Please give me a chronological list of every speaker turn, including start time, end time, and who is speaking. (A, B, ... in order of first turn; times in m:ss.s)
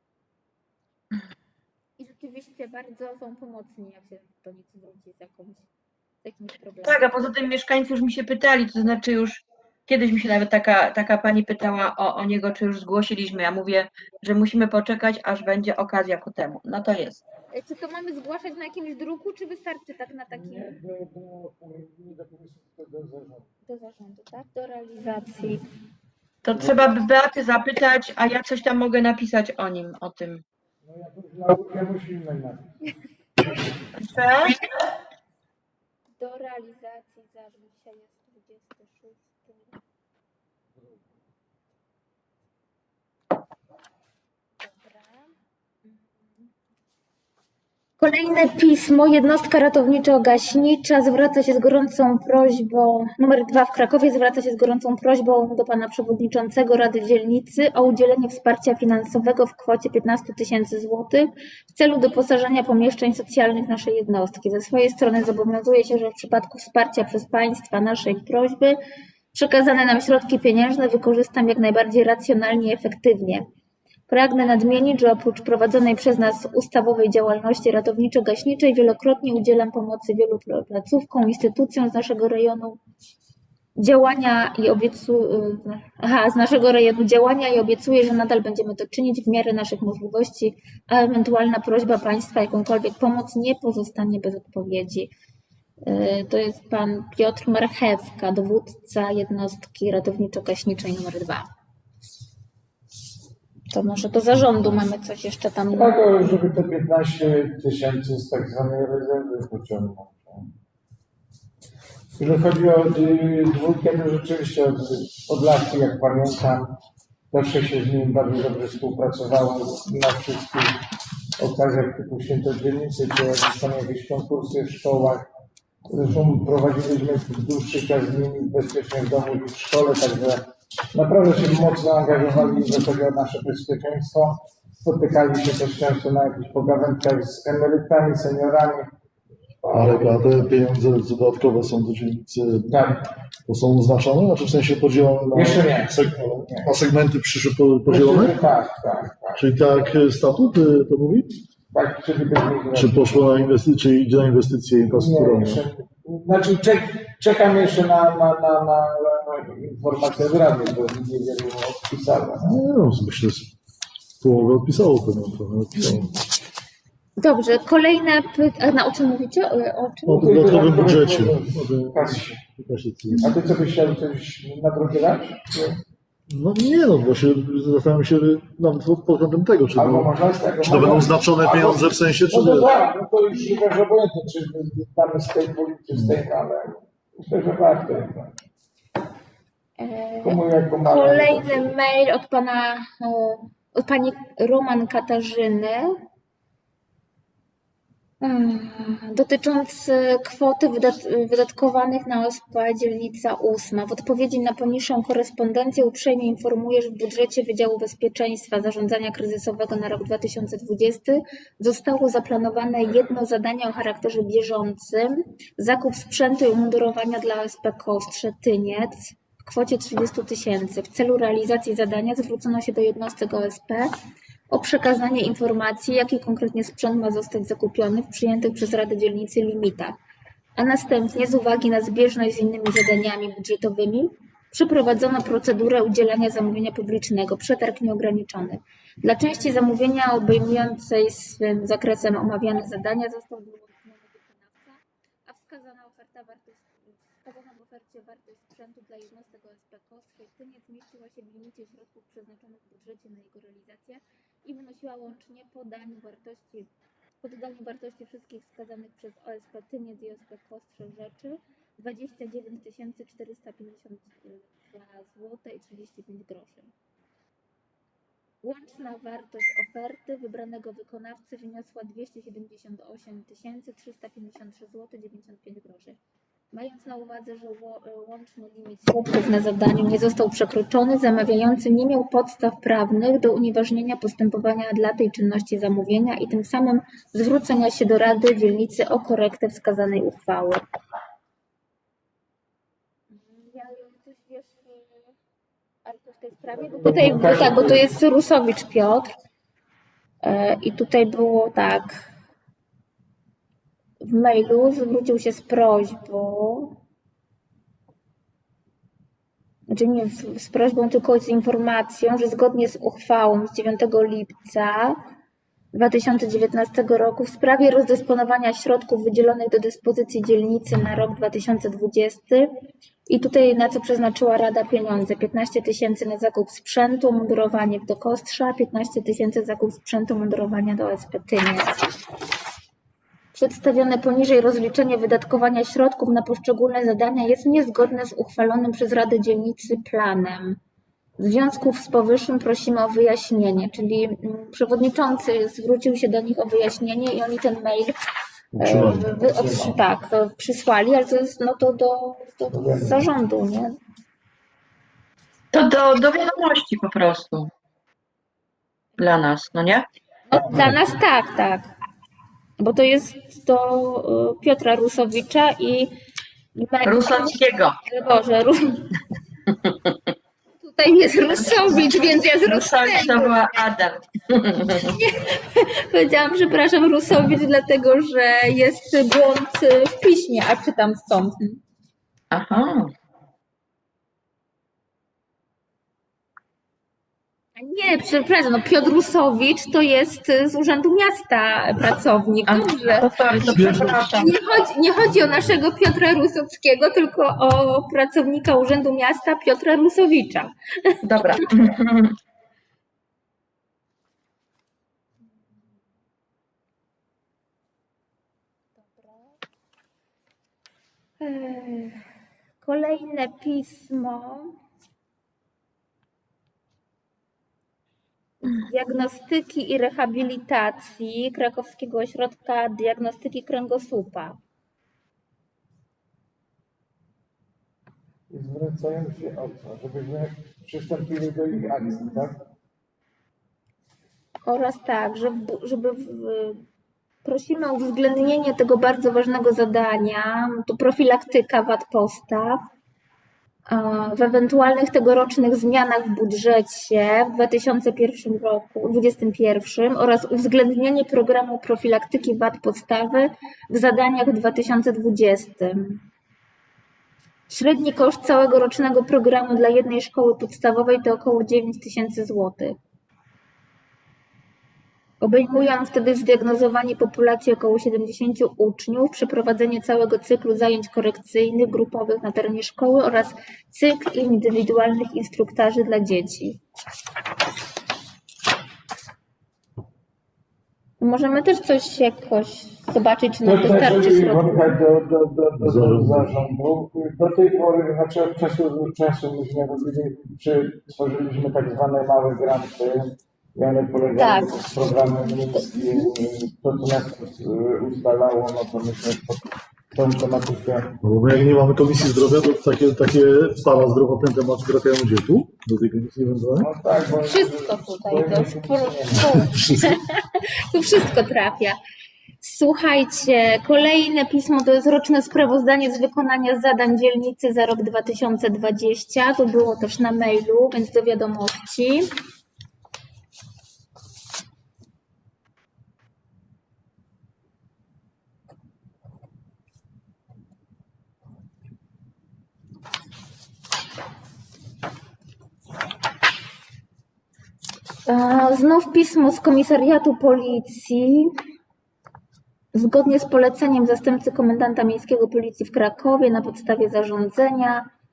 0:02.0-0:05.7 A
0:06.2-0:07.2 A
0:06.8-0:17.2 B
0:17.5-0:20.7 A
0:20.3-0:23.5 C
0:23.6-0:25.6 A
0:26.4-0:30.4 B
0:26.6-0:26.9 C
0:30.8-0:32.6 C
0:34.0-0:34.6 B
0:36.2-0:39.8 A
0:40.8-0:41.0 C
0:44.6-0:45.3 A
0:45.8-0:46.5 A
0:48.0-1:08.8 A
1:09.3-1:13.4 A
1:14.1-1:22.8 A
1:23.8-1:35.1 A
1:35.8-1:41.5 A
1:43.7-1:46.0 A
1:45.7-1:50.5 C
1:52.2-1:56.8 C
1:57.3-2:00.8 C
2:01.4-2:05.2 C
2:05.9-2:10.4 C
2:10.9-2:18.9 C
2:19.6-2:20.3 C
2:19.7-2:22.8 D
2:22.7-2:23.0 C
2:23.5-2:28.3 D
2:25.3-2:26.7 C
2:27.9-2:29.4 C
2:29.3-2:31.4 D
2:31.7-2:33.3 C
2:32.7-2:35.6 D
2:34.8-2:42.6 C
2:42.4-2:43.5 D
2:44.2-2:46.1 D
2:47.2-2:50.6 A
2:50.0-2:53.3 D
2:50.1-2:52.4 C
2:53.2-2:55.8 C
2:56.3-3:02.7 D
2:59.8-3:08.4 C
3:09.8-3:16.0 A
3:10.2-3:11.6 C
3:18.2-3:43.9 A
3:44.5-3:50.0 A
3:50.6-4:16.7 A
4:17.2-4:26.7 A
4:28.4-4:36.0 A
4:36.5-4:50.6 A
4:53.1-4:55.1 A
4:55.8-4:59.1 A
4:56.5-4:57.9 C
5:00.2-5:02.0 A
5:04.0-5:06.8 A
5:09.7-5:15.0 A
5:15.7-5:22.5 A
5:23.1-5:31.8 A
5:33.3-5:40.6 A
5:41.2-5:48.0 A
5:48.6-5:49.1 D
5:48.6-5:53.8 A
5:48.7-5:49.8 C
5:52.5-5:53.0 C
5:55.5-5:57.5 B
5:59.0-5:59.9 B
6:00.3-6:01.7 A
6:00.5-6:00.8 D
6:02.6-6:05.9 A
6:06.5-6:08.9 A
6:06.8-6:07.8 B
6:09.5-6:10.0 B
6:10.6-6:13.4 A
6:11.3-6:14.9 B
6:14.9-6:21.6 A
6:22.3-6:22.9 B
6:27.6-6:41.7 A
6:32.5-6:34.3 B
6:33.5-6:34.0 D
6:41.0-6:42.1 B
6:48.8-6:49.4 A
6:51.2-6:52.0 A
6:52.6-6:54.6 A
6:58.4-7:04.4 A
7:08.3-7:12.4 C
7:14.4-7:16.6 A
7:17.2-7:22.6 A
7:23.7-7:36.0 A
7:37.5-7:42.8 A
7:45.2-7:56.6 A
8:01.0-8:04.8 A
8:03.4-8:21.0 C
8:05.6-8:06.3 D
8:14.2-8:16.1 A
8:21.0-8:26.7 D
8:26.6-8:29.4 C
8:27.2-8:31.8 A
8:29.2-8:30.0 D
8:32.4-8:42.1 A
8:58.1-9:01.3 A
9:02.7-9:07.9 A